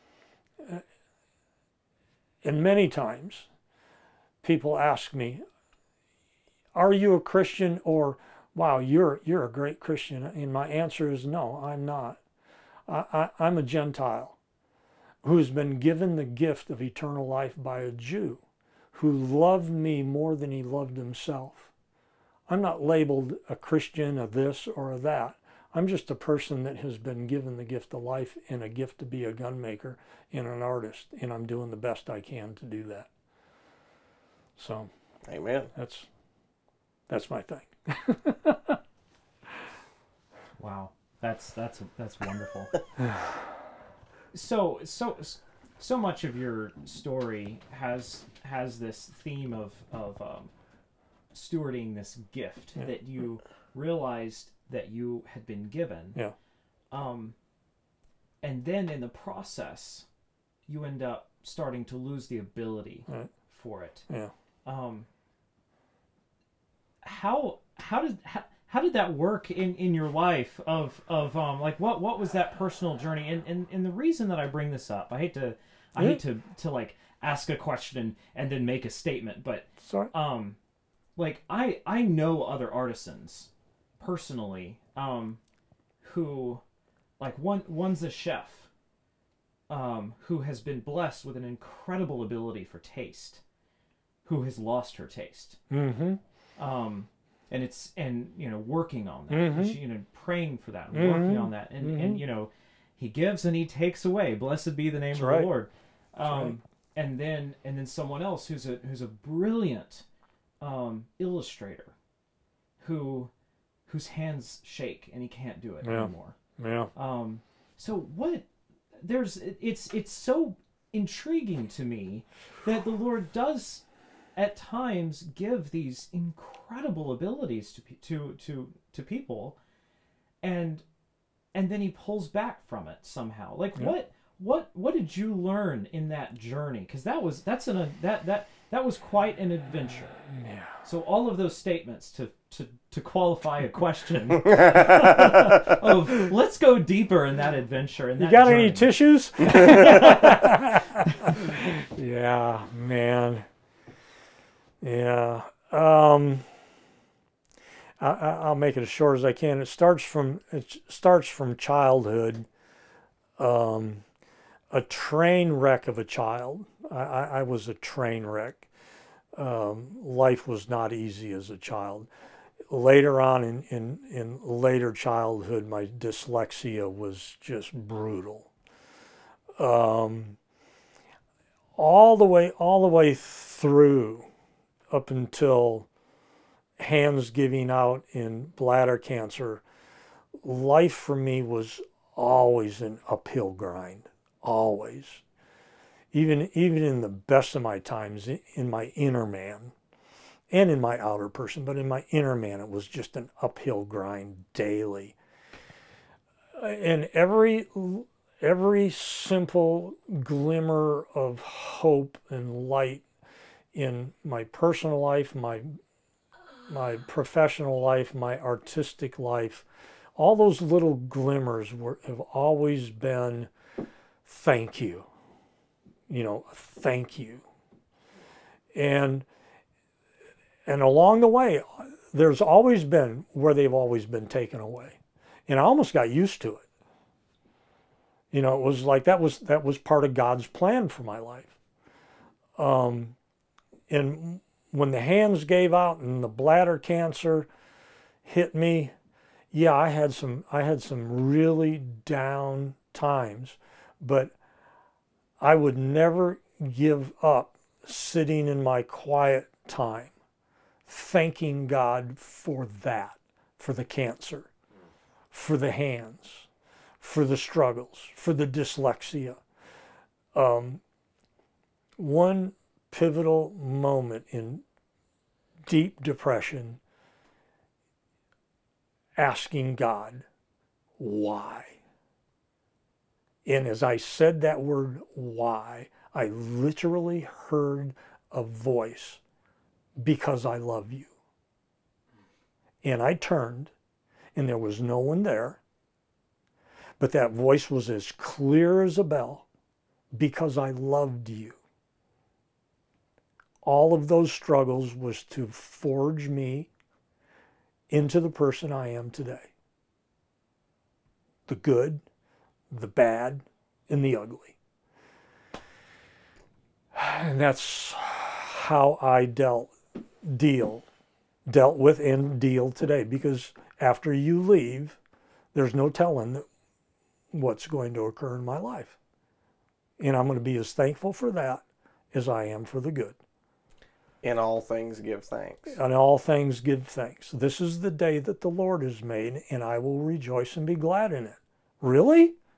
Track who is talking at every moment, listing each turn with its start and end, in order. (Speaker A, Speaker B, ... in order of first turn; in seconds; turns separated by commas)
Speaker A: 2.4-3.5, Speaker A: 4.4-5.4, Speaker A: 6.8-12.2, Speaker A: 12.9-14.4, Speaker A: 15.2-18.4, Speaker A: 18.9-21.7, Speaker A: 22.5-33.1, Speaker A: 34.6-34.9, Speaker B: 35.3-35.7, Speaker A: 35.8-36.1, Speaker A: 37.1-38.8, Speaker C: 40.6-42.8, Speaker C: 44.3-50.5, Speaker C: 51.3-56.2, Speaker C: 56.9-57.4, Speaker C: 58.4-60.1, Speaker C: 60.7-64.1, Speaker C: 64.7-65.1, Speaker C: 67.0-80.6, Speaker A: 79.8-80.1, Speaker C: 81.2-85.4, Speaker C: 86.0-86.6, Speaker C: 87.2-88.7, Speaker C: 89.7-93.4, Speaker C: 94.2-95.6, Speaker A: 95.7-96.2, Speaker C: 96.6-110.0, Speaker A: 99.3-99.8, Speaker A: 100.9-102.2, Speaker A: 105.1-105.5, Speaker A: 106.2-106.6, Speaker C: 110.6-111.9, Speaker C: 112.8-113.3, Speaker C: 113.9-116.4, Speaker A: 115.8-116.9, Speaker C: 117.0-118.5, Speaker C: 119.0-123.8, Speaker C: 124.3-129.6, Speaker C: 130.4-130.8, Speaker C: 131.5-140.2, Speaker A: 140.3-140.8, Speaker C: 140.8-151.4, Speaker B: 144.5-145.6, Speaker A: 148.2-153.5, Speaker A: 154.8-156.5, Speaker A: 158.0-162.5, Speaker A: 163.4-164.0, Speaker A: 164.7-168.7, Speaker A: 169.4-172.1, Speaker A: 172.7-178.5, Speaker A: 179.6-180.4, Speaker A: 181.8-184.3, Speaker A: 184.9-185.9, Speaker A: 186.8-189.6, Speaker A: 190.4-195.2, Speaker A: 196.1-199.7, Speaker A: 200.5-205.2, Speaker A: 206.6-213.0, Speaker A: 213.7-215.8, Speaker A: 216.7-219.7, Speaker A: 220.2-223.5, Speaker A: 224.2-225.1, Speaker A: 226.1-227.4, Speaker A: 228.7-229.3, Speaker A: 230.7-236.6, Speaker A: 238.3-241.5, Speaker A: 242.6-243.2, Speaker A: 243.9-247.5, Speaker A: 248.2-248.9, Speaker A: 249.5-254.3, Speaker A: 255.4-260.1, Speaker A: 260.9-264.5, Speaker A: 265.3-266.5, Speaker A: 267.0-269.4, Speaker A: 270.4-270.8, Speaker A: 272.0-274.6, Speaker A: 275.7-276.8, Speaker A: 279.2-280.3, Speaker A: 281.0-281.8, Speaker A: 283.4-289.2, Speaker A: 290.0-291.1, Speaker A: 292.8-293.7, Speaker A: 294.4-295.6, Speaker A: 297.0-299.4, Speaker A: 300.1-301.6, Speaker A: 303.6-306.7, Speaker A: 307.9-309.5, Speaker A: 311.5-312.0, Speaker A: 312.7-314.6, Speaker A: 316.9-319.7, Speaker A: 320.2-320.9, Speaker A: 321.5-325.0, Speaker A: 325.5-326.4, Speaker A: 327.3-329.0, Speaker A: 330.0-333.2, Speaker B: 334.2-335.8, Speaker A: 335.7-342.4